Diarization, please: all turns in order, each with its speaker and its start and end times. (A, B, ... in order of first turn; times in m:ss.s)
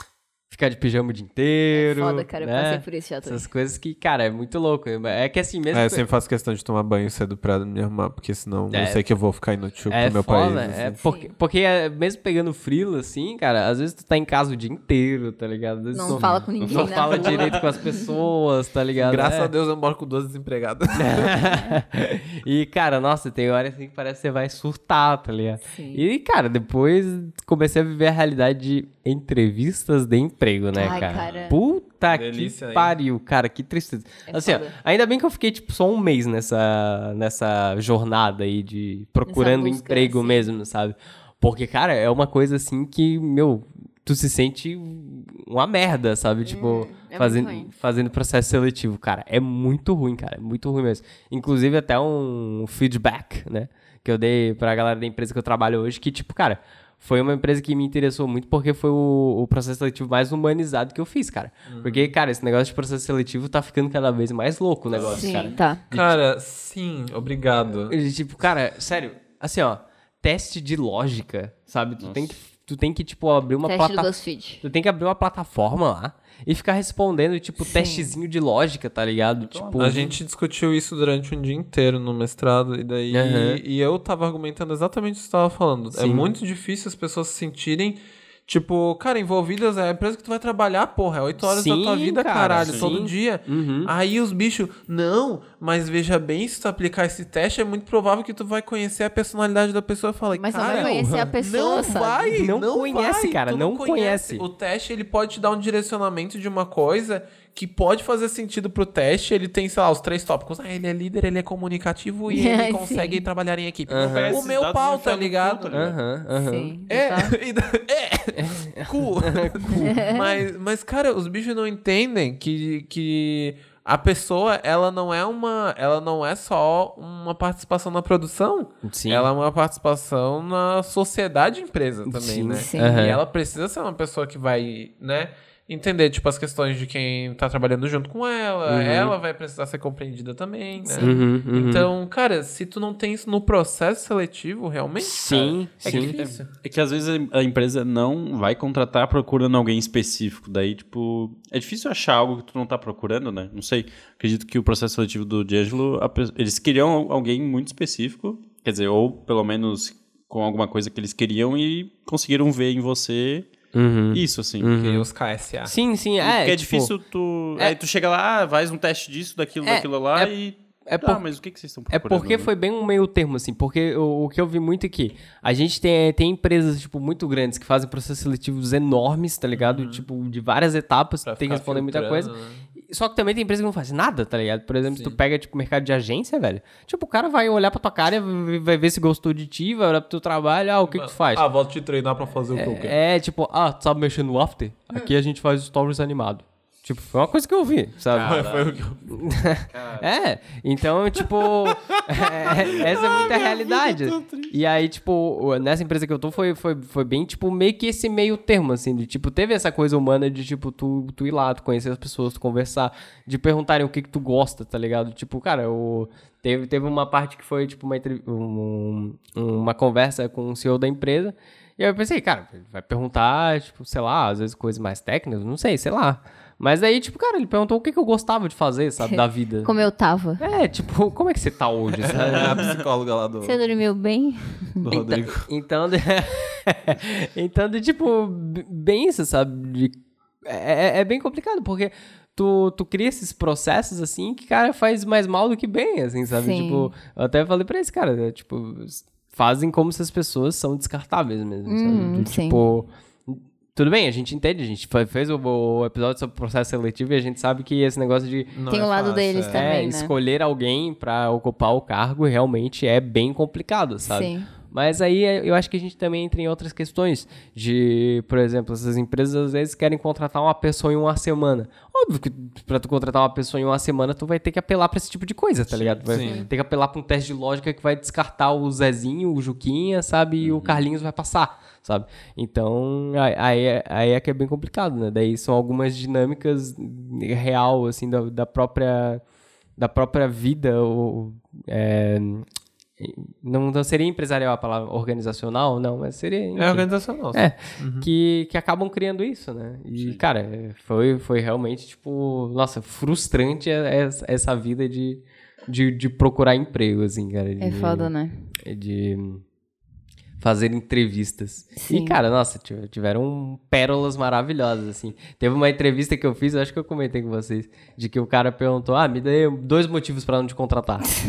0:00.5-0:06.0 A
0:01.7-0:03.5 B
0:05.7-0:11.0 C
0:08.7-0:09.0 A
0:09.9-0:19.5 A
0:11.0-0:11.3 B
0:15.9-0:18.0 B
0:16.6-0:17.8 D
0:19.0-0:21.4 C
0:21.0-1:06.1 A
0:25.7-0:26.0 B
0:30.7-0:31.6 B
0:30.8-0:31.5 D
0:32.1-0:33.0 C
0:34.3-0:34.7 B
0:39.3-0:40.4 B
0:46.5-0:47.7 B
1:01.7-1:02.1 C
1:04.9-1:05.6 D
1:05.2-1:05.8 B
1:05.9-1:08.0 C
1:07.9-1:20.1 A
1:12.0-1:12.3 D
1:13.6-1:14.6 B
1:17.7-1:18.1 B
1:19.4-1:20.2 D
1:19.8-1:55.9 C
1:23.1-1:23.6 A
1:25.9-1:26.3 A
1:31.4-1:33.9 A
1:32.6-1:33.0 D
1:40.3-1:42.3 B
1:40.7-1:41.3 A
1:42.3-1:44.4 A
1:52.3-1:53.2 B
1:53.9-1:54.4 A
1:54.0-1:56.0 D
1:55.7-1:56.8 A
1:56.4-1:57.4 B
1:56.9-2:26.5 C
1:58.4-2:00.0 A
1:59.9-2:00.2 B
2:08.8-2:09.3 A
2:12.1-2:13.2 A
2:12.5-2:13.0 B
2:18.7-2:19.2 A
2:20.8-2:21.2 B
2:21.0-2:21.9 A
2:25.0-2:26.2 A
2:25.3-2:43.5 D
2:43.7-2:45.1 A
2:44.1-2:44.8 D
2:44.8-2:45.7 C
2:45.7-2:46.9 A
2:46.2-2:52.5 D
2:49.6-2:50.3 A
2:50.9-2:51.2 A
2:51.9-3:11.5 A
2:59.6-3:00.1 C
3:01.2-3:02.7 C
3:04.9-3:05.2 C
3:10.9-3:13.0 C
3:12.6-3:18.4 A
3:18.1-3:18.8 D
3:18.2-3:19.1 C
3:19.1-3:49.7 A
3:19.7-3:20.2 D
3:21.6-3:24.5 C
3:49.0-3:50.4 B
3:50.4-3:52.7 A
3:52.0-3:53.6 C
3:52.4-3:52.8 D
3:53.4-3:54.9 B
3:54.8-3:55.5 C
3:55.5-4:18.6 A
4:06.4-4:06.9 B
4:11.7-4:12.6 B
4:18.5-4:19.7 C
4:18.7-4:20.2 B
4:19.5-4:49.2 A
4:24.1-4:24.5 B
4:35.7-4:36.0 D
4:36.1-4:36.5 C
4:36.2-4:36.5 B
4:40.4-4:40.8 D
4:49.8-4:52.4 A
4:53.0-5:08.1 A
4:56.6-4:58.1 C
5:00.0-5:00.2 D
5:07.6-5:08.5 B
5:08.6-5:09.4 A
5:10.4-5:21.1 A
5:11.8-5:12.2 B